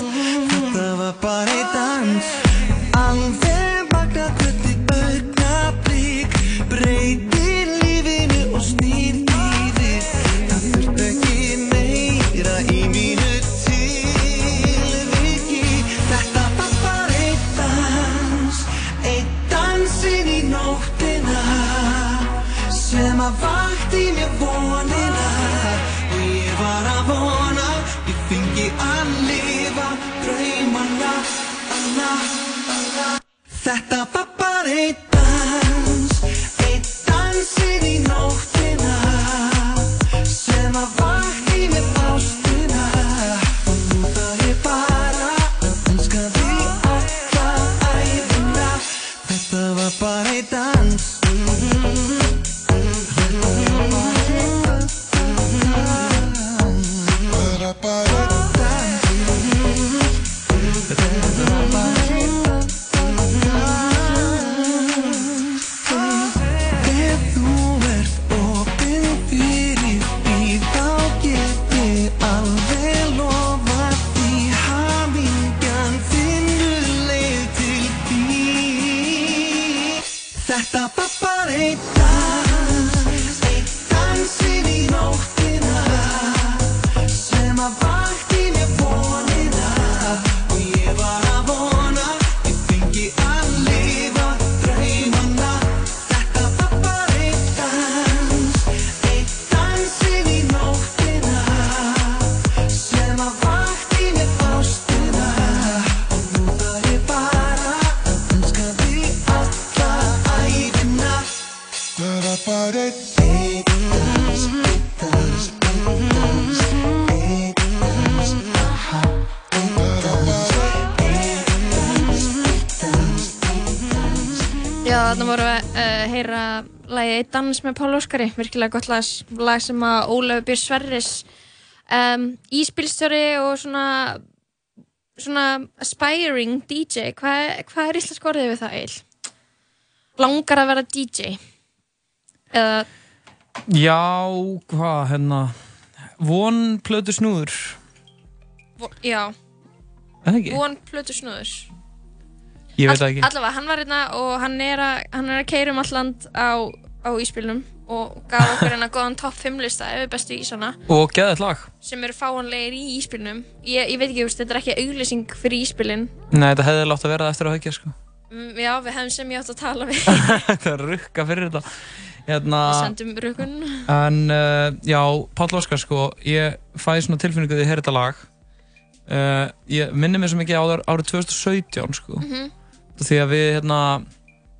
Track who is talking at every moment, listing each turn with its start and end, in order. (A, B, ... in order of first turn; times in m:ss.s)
0:00.3-0:52.1 A
0:53.1-1:00.0 A
1:00.9-1:51.3 A
1:52.5-2:04.4 A
2:04.8-2:11.2 B
2:11.9-2:14.2 B
2:15.2-2:19.0 B
2:20.2-2:21.4 B
2:22.5-2:22.9 B
2:23.7-2:25.6 C
2:26.2-2:27.8 C
2:28.8-2:29.3 B
2:30.2-2:30.6 C
2:30.5-2:31.7 B
2:32.8-2:33.3 C
2:32.9-2:40.8 B
2:38.4-2:38.7 C
2:40.9-2:41.7 C
2:41.8-2:46.1 B
2:46.3-2:47.9 C
2:48.3-2:50.4 B
2:50.1-2:51.6 C
2:52.3-2:52.9 C
2:52.6-2:53.9 B
2:53.9-2:58.3 C
2:59.1-3:02.2 C
3:02.2-3:02.5 B
3:03.0-3:04.0 C